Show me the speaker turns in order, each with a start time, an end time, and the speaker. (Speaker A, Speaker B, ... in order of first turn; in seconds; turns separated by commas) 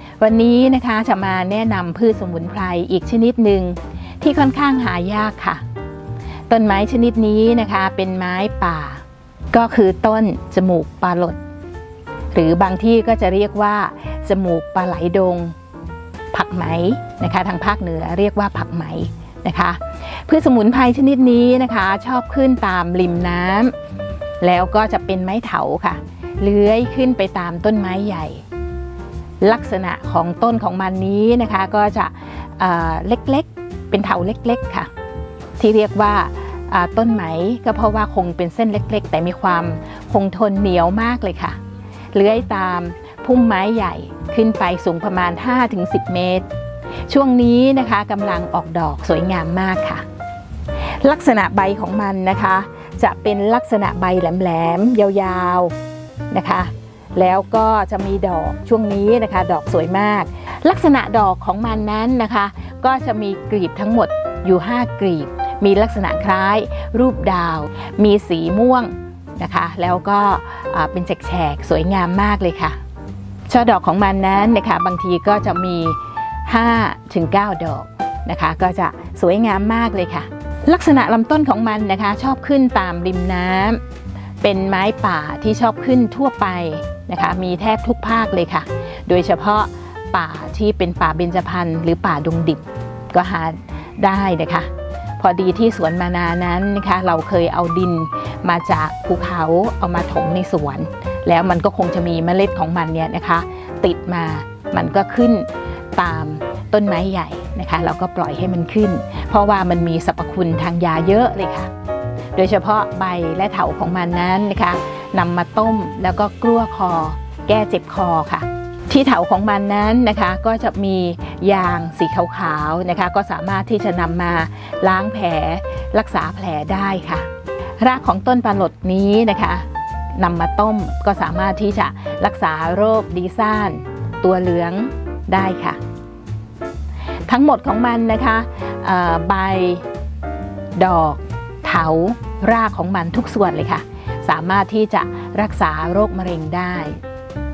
Speaker A: 0.2-5.6, Speaker A: 6.5-11.4, Speaker A: 12.3-15.5, Speaker A: 16.3-23.7, Speaker A: 24.4-28.4, Speaker A: 29.4-34.9, Speaker A: 35.6-41.6, Speaker A: 42.1-46.5, Speaker A: 47.1-50.0, Speaker A: 50.9-55.7, Speaker A: 56.3-72.8, Speaker A: 73.5-83.8, Speaker A: 84.4-111.7, Speaker A: 112.3-127.3, Speaker A: 127.8-129.7, Speaker A: 130.2-135.8, Speaker A: 137.3-139.8, Speaker A: 140.8-147.0